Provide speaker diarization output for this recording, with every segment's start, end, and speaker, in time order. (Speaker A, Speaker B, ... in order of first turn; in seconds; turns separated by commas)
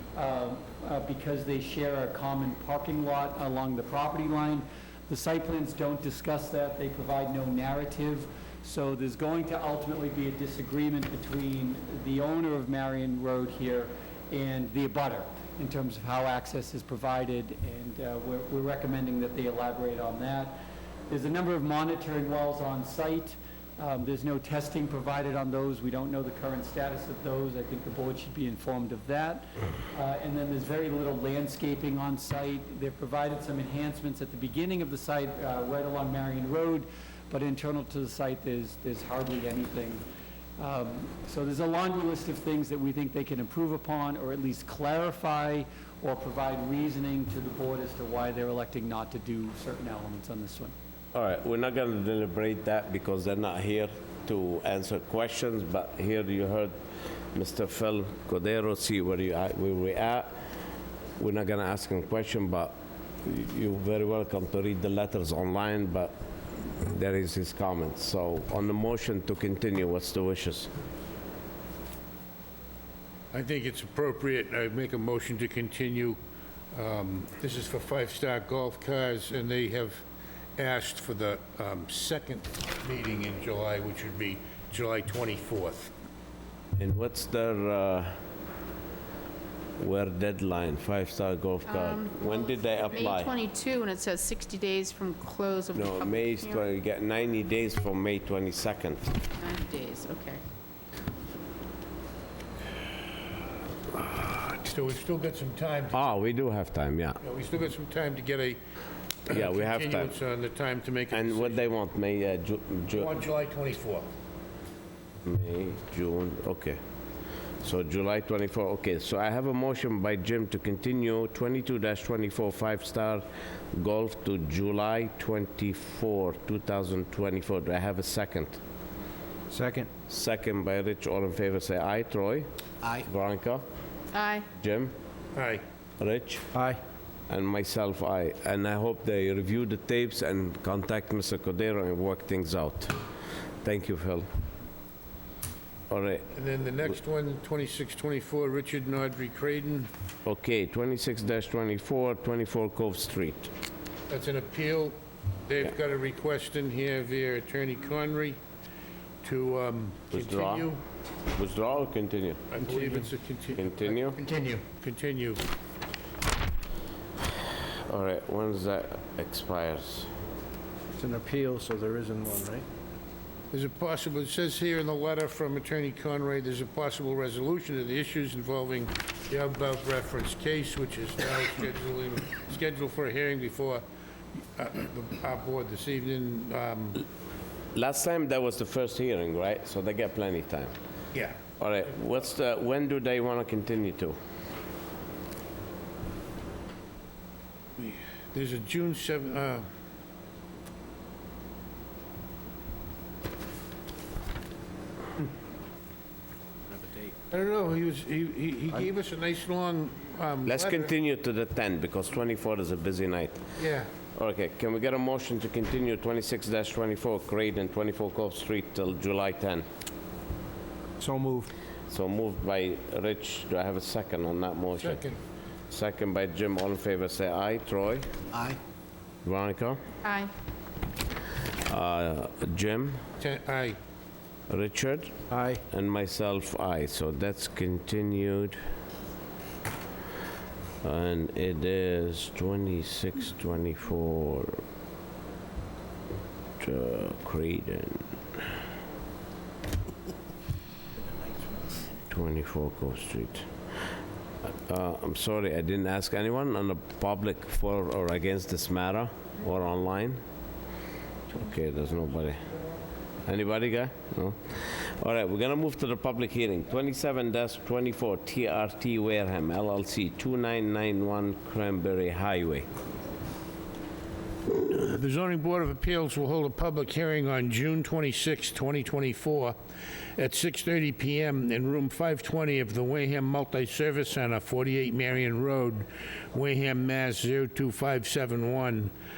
Speaker A: 0.1-40.0, Speaker A: 40.6-50.7, Speaker B: 51.1-56.7, Speaker B: 57.3-60.3, Speaker B: 61.2-66.1, Speaker B: 66.7-70.7, Speaker C: 73.3-76.2, Speaker C: 76.7-80.0, Speaker C: 80.6-85.9, Speaker B: 86.8-88.2, Speaker B: 89.8-93.3, Speaker D: 91.7-96.6, Speaker B: 95.7-99.2, Speaker D: 99.4-100.4, Speaker C: 104.0-106.0, Speaker B: 105.9-107.2, Speaker C: 107.2-108.6, Speaker C: 109.3-111.6, Speaker B: 109.3-110.1, Speaker B: 111.1-113.2, Speaker C: 112.9-114.1, Speaker B: 115.2-116.8, Speaker B: 117.6-128.6, Speaker E: 129.5-129.9, Speaker B: 130.1-133.6, Speaker D: 134.1-134.5, Speaker B: 134.5-134.9, Speaker C: 135.3-135.6, Speaker B: 136.0-136.5, Speaker E: 136.5-136.8, Speaker B: 137.3-142.9, Speaker B: 143.6-144.3, Speaker B: 145.9-146.3, Speaker C: 146.3-149.9, Speaker B: 150.3-153.5, Speaker C: 154.1-158.4, Speaker C: 159.2-160.8, Speaker B: 160.1-160.7, Speaker B: 161.3-162.5, Speaker C: 162.5-165.4, Speaker E: 162.7-162.9, Speaker B: 163.6-164.2, Speaker B: 167.9-170.1, Speaker E: 171.0-172.7, Speaker C: 173.5-183.8, Speaker C: 184.4-187.0, Speaker B: 187.8-190.7, Speaker C: 191.1-191.4, Speaker B: 191.6-194.2, Speaker C: 197.8-199.7, Speaker C: 207.3-210.9, Speaker B: 210.5-213.4, Speaker C: 213.6-213.9, Speaker B: 214.2-219.7, Speaker E: 221.0-221.5, Speaker B: 221.9-225.0, Speaker C: 224.8-225.2, Speaker B: 225.7-228.1, Speaker B: 229.2-229.8, Speaker D: 230.0-230.3, Speaker B: 231.7-233.0, Speaker C: 233.2-233.8, Speaker B: 234.5-235.2, Speaker E: 235.3-235.6, Speaker B: 235.7-238.6, Speaker B: 240.8-244.6, Speaker B: 246.6-248.1, Speaker B: 252.1-253.5, Speaker B: 254.5-260.2, Speaker B: 261.3-262.5, Speaker B: 263.3-272.7, Speaker C: 274.5-279.6, Speaker C: 280.2-288.9